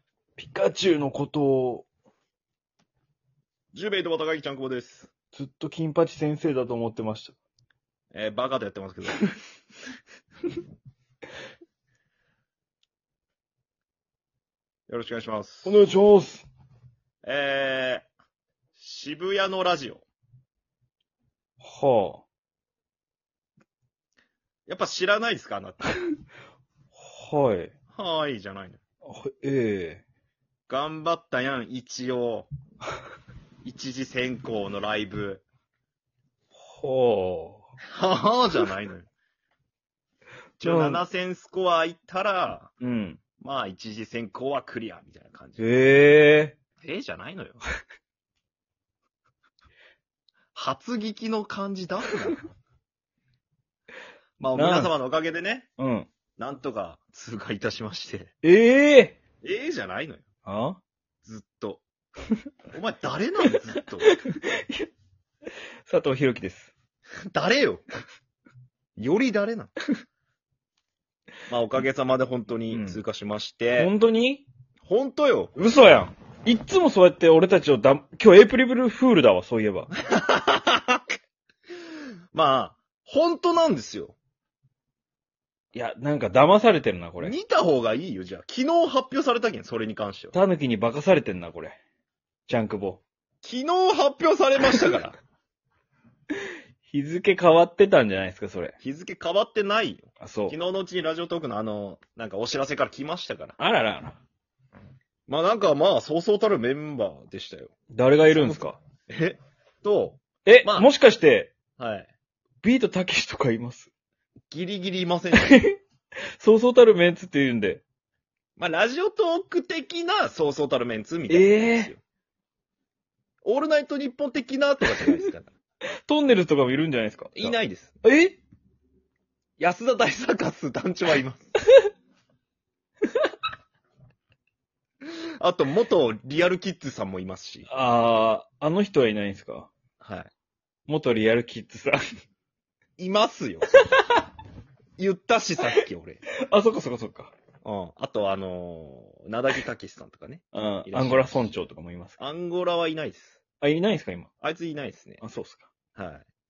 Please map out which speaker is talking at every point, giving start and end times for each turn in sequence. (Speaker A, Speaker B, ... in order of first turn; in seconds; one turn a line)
Speaker A: 0.4-1.9
Speaker B: 3.7-5.1
Speaker A: 5.3-7.3
Speaker B: 8.1-9.2
Speaker B: 14.9-15.8
Speaker A: 15.7-16.5
Speaker B: 17.2-18.1
Speaker B: 18.8-20.1
Speaker A: 21.6-22.2
Speaker B: 24.7-25.9
Speaker A: 26.9-27.7
Speaker B: 27.9-28.8
Speaker A: 29.0-30.0
Speaker B: 30.7-32.5
Speaker B: 33.6-35.4
Speaker A: 36.6-37.6
Speaker B: 37.9-39.1
Speaker B: 40.6-42.7
Speaker A: 40.6-41.0
Speaker A: 42.8-43.2
Speaker B: 43.4-45.8
Speaker A: 45.6-46.6
Speaker B: 46.8-47.6
Speaker B: 50.5-52.4
Speaker B: 54.4-55.7
Speaker A: 54.5-54.9
Speaker A: 55.8-56.1
Speaker B: 56.4-58.3
Speaker A: 58.4-59.2
Speaker B: 59.4-60.2
Speaker A: 60.5-60.8
Speaker B: 61.2-61.9
Speaker B: 62.7-64.1
Speaker A: 64.0-64.9
Speaker A: 65.9-66.7
Speaker B: 67.3-67.8
Speaker B: 69.0-69.8
Speaker B: 71.5-73.9
Speaker A: 72.7-73.0
Speaker A: 73.8-74.5
Speaker B: 74.8-75.5
Speaker A: 75.5-79.9
Speaker B: 80.0-81.0
Speaker B: 82.3-84.2
Speaker A: 85.7-87.4
Speaker B: 87.2-90.3
Speaker A: 90.3-91.8
Speaker A: 92.5-93.0
Speaker B: 93.4-95.2
Speaker A: 96.9-98.8
Speaker B: 98.8-103.6
Speaker A: 100.2-100.6
Speaker A: 103.6-104.2
Speaker B: 105.3-107.7
Speaker A: 107.9-108.8
Speaker B: 108.3-110.9
Speaker A: 110.5-111.5
Speaker B: 111.8-112.1
Speaker A: 112.6-113.9
Speaker B: 114.5-115.7
Speaker A: 115.4-115.7
Speaker A: 116.4-117.8
Speaker B: 118.6-122.0
Speaker A: 121.3-121.9
Speaker B: 123.4-125.5
Speaker A: 126.1-128.4
Speaker B: 127.4-127.9
Speaker B: 129.6-131.6
Speaker B: 135.4-137.7
Speaker A: 137.7-139.7
Speaker B: 140.0-140.3
Speaker A: 140.9-142.0
Speaker B: 143.0-143.7
Speaker B: 145.0-146.2
Speaker A: 146.4-147.3
Speaker B: 147.6-151.5
Speaker A: 150.5-152.2
Speaker B: 152.2-153.4
Speaker A: 153.6-154.3
Speaker B: 154.4-155.2
Speaker A: 155.2-155.7
Speaker B: 155.9-156.2